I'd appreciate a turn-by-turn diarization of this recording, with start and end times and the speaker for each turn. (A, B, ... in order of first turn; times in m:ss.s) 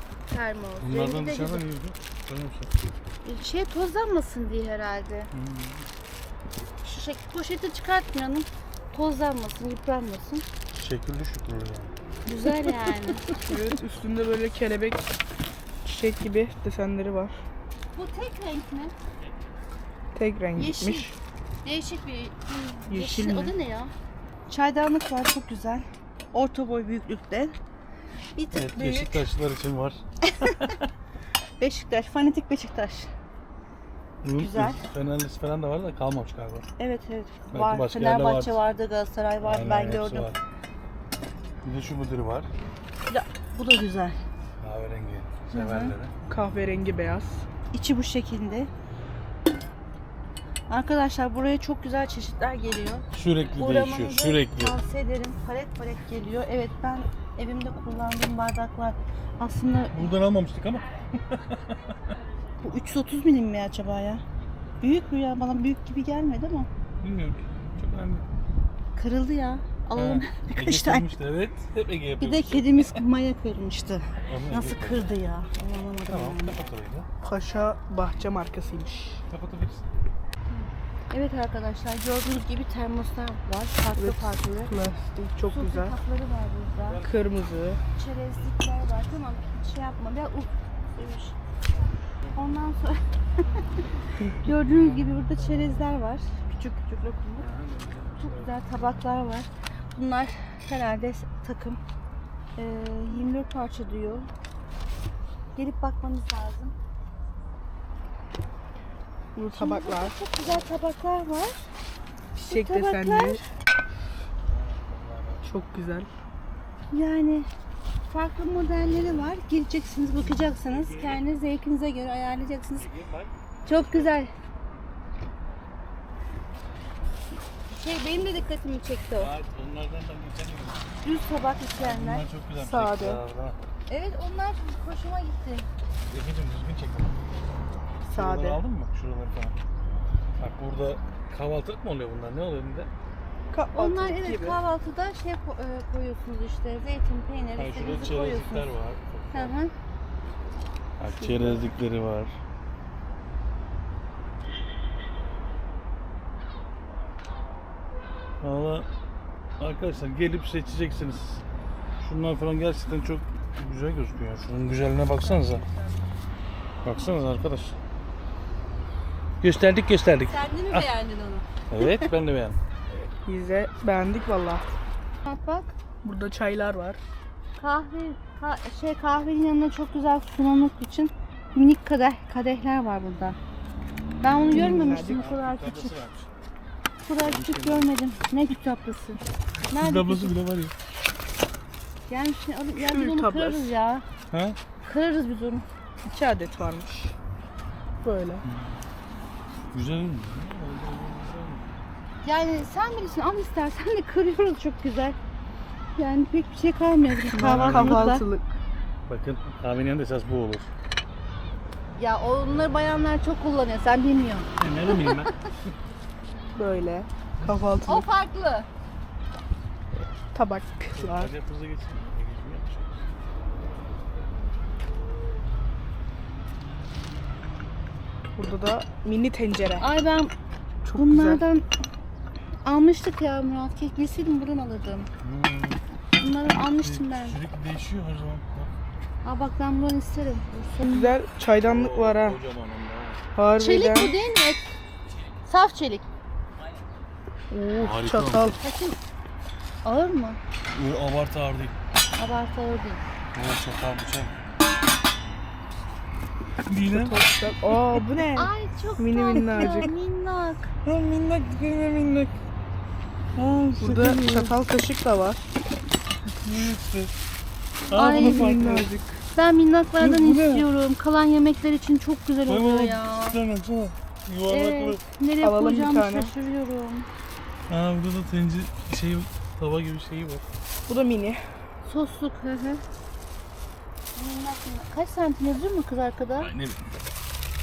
0:00.3-0:01.6 A
0:00.8-0:02.7 B
0:03.2-0:05.3 A
0:05.3-0:05.9 B
0:06.8-0:10.4 A
0:10.7-0:11.9 B
0:12.2-0:13.5 A
0:13.4-0:15.0 C
0:15.8-0:17.4 C
0:17.9-0:18.9 A
0:20.1-0:21.2 C
0:20.6-0:21.1 A
0:21.6-0:23.9 A
0:22.9-0:23.5 C
0:24.5-0:27.5 A
0:28.4-0:29.2 A
0:28.5-0:30.8 B
0:30.2-0:30.8 A
0:31.6-0:33.1 A
0:34.2-0:36.7 B
0:34.4-0:34.8 A
0:36.8-0:40.3 A
0:37.5-0:38.6 B
0:39.4-0:40.4 B
0:41.6-0:42.5 B
0:43.1-0:44.2 A
0:44.6-0:46.1 B
0:45.5-0:46.0 A
0:46.3-0:47.4 C
0:47.7-0:48.7 A
0:50.7-1:00.1 A
0:53.1-0:54.8 B
0:59.9-1:02.1 B
1:02.6-1:04.2 A
1:04.8-1:06.7 A
1:07.0-1:08.2 B
1:09.0-1:11.1 A
1:09.9-1:13.0 B
1:12.2-1:16.6 A
1:14.2-1:15.1 B
1:16.1-1:17.1 B
1:17.2-1:19.2 C
1:19.3-1:19.9 B
1:20.5-1:24.7 A
1:24.0-1:25.9 C
1:25.5-1:27.0 A
1:26.8-1:27.2 B
1:27.0-1:27.8 C
1:27.9-1:31.4 A
1:32.3-1:33.6 A
1:34.3-1:35.8 B
1:34.3-1:37.5 A
1:37.4-1:38.9 B
1:38.2-1:41.8 A
1:42.6-1:44.3 A
1:45.6-1:46.7 A
1:49.4-1:50.1 C
1:49.6-1:51.7 A
1:52.4-1:53.4 A
1:52.4-1:53.4 C
1:54.5-1:55.5 B
1:55.4-1:56.1 C
1:56.9-1:57.5 A
1:58.1-2:02.9 A
2:00.7-2:01.2 B
2:02.7-2:04.1 B
2:03.6-2:04.3 A
2:07.7-2:09.3 A
2:09.2-2:10.9 B
2:11.0-2:12.2 A
2:11.8-2:13.6 B
2:12.6-2:13.2 C
2:13.9-2:15.7 A
2:16.1-2:17.2 B
2:18.0-2:18.6 C
2:18.1-2:19.5 B
2:20.4-2:22.9 B
2:23.5-2:24.6 C
2:23.7-2:28.7 A
2:27.6-2:29.6 B
2:29.3-2:29.7 A
2:31.0-2:32.4 B
2:31.2-2:31.7 C
2:38.4-2:38.9 B
2:39.6-2:41.4 B
2:42.0-2:45.6 B
2:45.2-2:46.0 C
2:46.8-2:47.8 B
2:49.4-2:50.9 B
2:50.3-2:52.1 A
2:51.7-2:52.6 B
2:53.2-2:54.7 C
2:55.2-2:55.7 A
2:56.0-2:57.0 C
2:57.6-3:03.4 A
3:04.2-3:06.0 A
3:04.5-3:05.2 C
3:05.1-3:06.3 B
3:07.0-3:10.3 A
3:07.2-3:07.9 B
3:09.7-3:10.7 B
3:12.1-3:14.0 A
3:12.8-3:13.7 C
3:14.3-3:14.6 B
3:14.8-3:15.7 A
3:16.1-3:17.1 C
3:18.0-3:18.4 C
3:18.4-3:18.9 B
3:19.7-3:21.6 B
3:22.2-3:25.2 A
3:26.0-3:28.2 A
3:27.3-3:28.6 C
3:27.3-3:28.2 B
3:29.1-3:30.7 B
3:32.0-3:35.4 A
3:34.6-3:35.7 B
3:36.6-3:38.0 C
3:37.4-3:37.8 B
3:37.8-3:38.7 A
3:40.3-3:41.3 C
3:40.9-3:43.0 B
3:48.4-3:49.9 C
3:49.8-3:50.3 A
3:50.8-3:51.4 C
3:51.0-3:51.6 A
3:52.6-3:55.1 A
3:55.2-3:55.8 B
3:56.2-3:57.4 A
3:56.8-3:58.7 B
3:59.2-4:01.1 A
4:00.9-4:02.4 C
4:01.6-4:03.2 B
4:03.4-4:04.1 C
4:03.6-4:04.7 A
4:05.4-4:06.0 A
4:07.5-4:08.6 C
4:07.8-4:08.6 B
4:08.6-4:09.0 A
4:09.8-4:10.4 A
4:10.7-4:11.8 B
4:12.2-4:13.0 A
4:13.3-4:14.4 B
4:16.6-4:17.2 B
4:16.9-4:19.9 C
4:18.4-4:20.7 A
4:19.4-4:19.9 B
4:20.8-4:22.4 B
4:23.4-4:24.1 B
4:23.8-4:25.4 C
4:23.8-4:24.6 A
4:26.4-4:27.1 B
4:27.9-4:28.9 B
4:27.9-4:28.6 A
4:28.0-4:29.2 C
4:29.3-4:33.4 A
4:30.0-4:30.6 C
4:32.4-4:35.0 B
4:34.5-4:37.1 A
4:35.4-4:36.3 C
4:37.7-4:40.4 B
4:40.9-4:41.4 C
4:41.8-4:42.8 A
4:44.1-4:46.5 A
4:46.4-4:46.9 B